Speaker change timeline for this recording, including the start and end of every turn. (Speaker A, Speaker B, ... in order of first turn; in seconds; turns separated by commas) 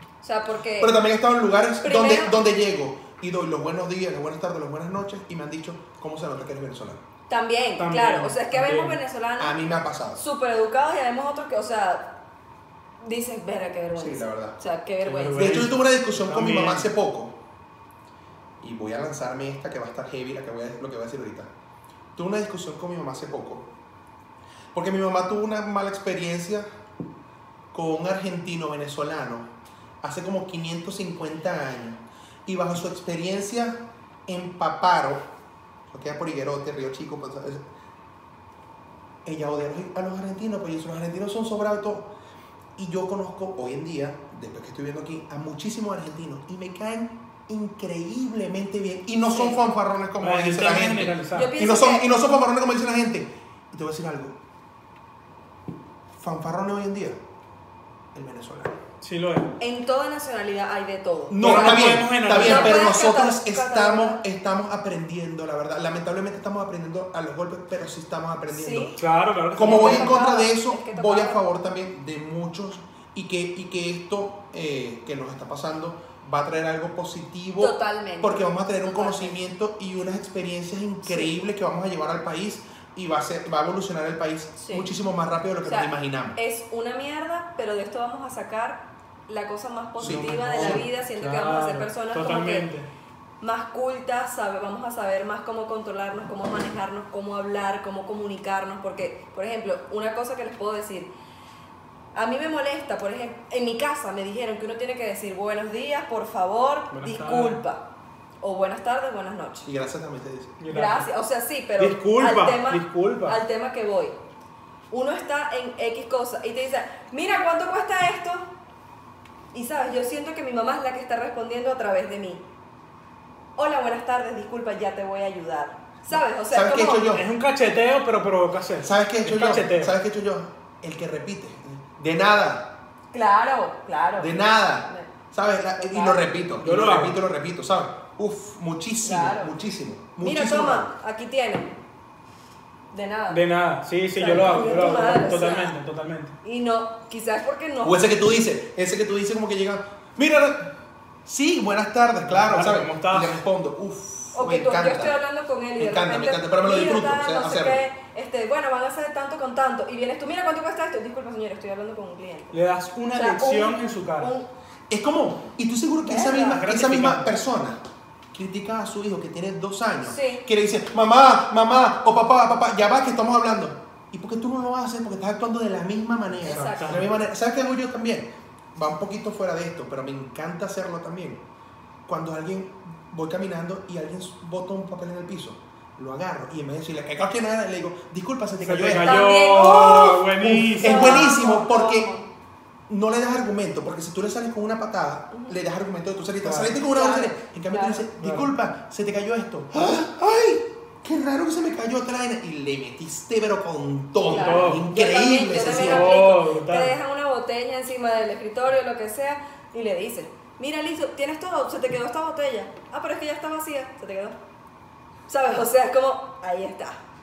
Speaker A: 0.2-1.0, Speaker B: 0.8-7.0, Speaker A: 1.8-2.4, Speaker A: 7.3-9.6, Speaker C: 7.8-9.0, Speaker B: 9.4-10.2, Speaker A: 10.2-12.1, Speaker A: 13.0-15.7, Speaker B: 13.9-14.6, Speaker C: 15.0-16.9, Speaker B: 15.3-17.4, Speaker B: 18.6-21.5, Speaker B: 22.1-23.7, Speaker B: 24.7-26.7, Speaker B: 27.7-29.5, Speaker B: 30.0-35.2, Speaker B: 35.9-37.6, Speaker B: 39.2-42.1, Speaker B: 42.8-54.4, Speaker A: 49.3-49.6, Speaker C: 50.2-51.6, Speaker A: 51.3-52.1, Speaker B: 56.2-57.2, Speaker B: 58.1-58.8, Speaker C: 59.0-59.5, Speaker A: 59.6-64.2, Speaker B: 61.3-69.0, Speaker C: 61.4-63.0, Speaker A: 68.5-69.0, Speaker C: 69.0-70.2, Speaker B: 69.5-86.4, Speaker A: 69.6-71.4, Speaker A: 77.6-79.4, Speaker A: 81.0-81.3, Speaker A: 84.6-84.9, Speaker A: 85.7-92.7, Speaker B: 90.0-90.8, Speaker C: 90.0-92.9, Speaker A: 93.4-101.1, Speaker A: 102.1-107.8, Speaker C: 106.9-107.6, Speaker A: 108.4-109.7, Speaker B: 109.7-110.6, Speaker C: 110.6-111.1, Speaker A: 110.7-114.2, Speaker C: 111.8-113.4, Speaker A: 114.9-118.5, Speaker A: 119.5-122.4, Speaker A: 123.6-127.1, Speaker B: 126.5-127.2, Speaker C: 127.1-129.9, Speaker B: 128.8-132.7, Speaker A: 133.1-135.1, Speaker B: 134.2-140.9, Speaker A: 135.8-136.3, Speaker C: 136.6-137.2, Speaker A: 139.0-139.6, Speaker A: 140.2-141.7, Speaker A: 142.9-143.4, Speaker C: 143.3-146.3, Speaker A: 144.2-145.8, Speaker A: 146.4-148.1, Speaker B: 147.8-150.7, Speaker B: 151.2-155.2, Speaker C: 152.3-153.4, Speaker A: 154.3-162.6, Speaker B: 155.8-157.8, Speaker C: 162.5-164.3, Speaker A: 163.1-164.5, Speaker B: 164.9-167.8, Speaker A: 166.1-166.5, Speaker C: 166.1-167.4, Speaker B: 168.3-181.4, Speaker A: 170.1-170.4, Speaker A: 176.4-177.0, Speaker C: 176.5-177.1, Speaker B: 182.1-189.3, Speaker C: 188.6-191.4, Speaker A: 189.0-192.3, Speaker B: 190.4-192.1, Speaker B: 192.9-206.1, Speaker C: 196.4-196.7, Speaker A: 196.8-198.1, Speaker C: 198.2-198.5, Speaker C: 204.3-204.9, Speaker A: 204.3-214.4, Speaker C: 205.6-206.9, Speaker A: 215.3-217.0